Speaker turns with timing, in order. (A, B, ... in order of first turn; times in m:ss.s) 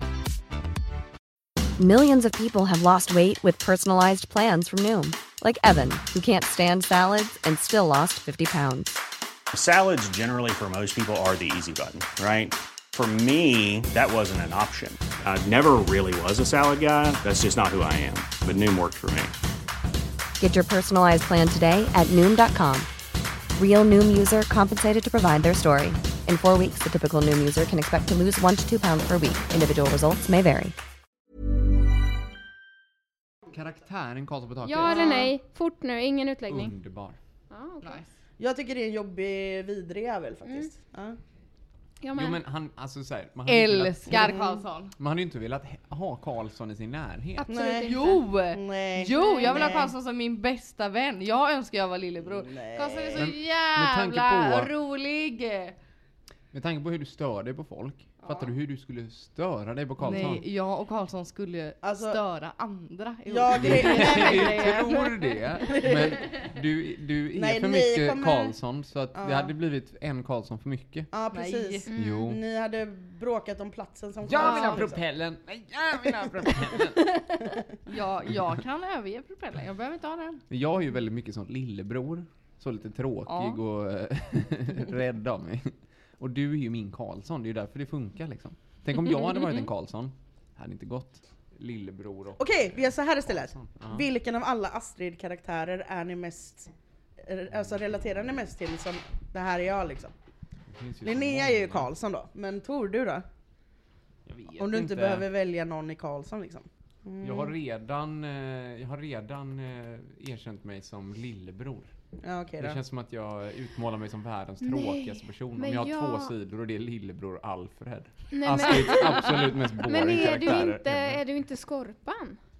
0:01.8-0:09.0 A
0:09.5-0:19.3 B
0:20.4-0:22.9 A
0:23.5-0:30.7 A
0:33.5-0:35.2 C
0:34.6-0:36.7 D
0:34.8-0:35.3 E
0:36.5-0:37.2 C
0:37.5-0:38.0 D
0:37.8-0:38.1 F
0:38.4-0:41.2 E
0:42.0-0:42.4 D
0:42.1-0:44.4 C
0:43.4-0:44.9 F
0:44.1-0:44.6 E
0:45.0-0:47.5 C
0:47.4-0:48.2 D
0:47.5-0:49.9 E
0:47.8-0:55.7 F
0:49.1-0:49.8 D
0:52.2-0:53.3 E
0:53.1-0:54.7 C
0:56.5-1:00.4 C
0:58.2-0:58.5 F
1:00.0-1:05.9 F
1:01.8-1:02.2 E
1:03.2-1:05.1 E
1:03.6-1:11.1 C
1:05.7-1:06.4 E
1:07.3-1:08.5 E
1:09.1-1:09.5 E
1:11.1-1:15.0 E
1:11.3-1:11.9 F
1:11.9-1:12.3 D
1:11.9-1:12.4 C
1:14.2-1:17.0 C
1:14.4-1:14.8 D
1:17.8-1:20.4 F
1:20.5-1:34.0 C
1:23.2-1:23.6 F
1:32.4-1:36.7 E
1:37.2-1:40.1 E
1:40.7-1:41.9 C
1:41.0-1:43.2 E
1:44.2-1:45.2 C
1:44.6-1:47.5 E
1:47.2-1:51.9 C
1:52.2-1:52.8 E
1:52.6-2:01.2 C
1:54.6-1:56.3 D
1:58.3-2:02.4 D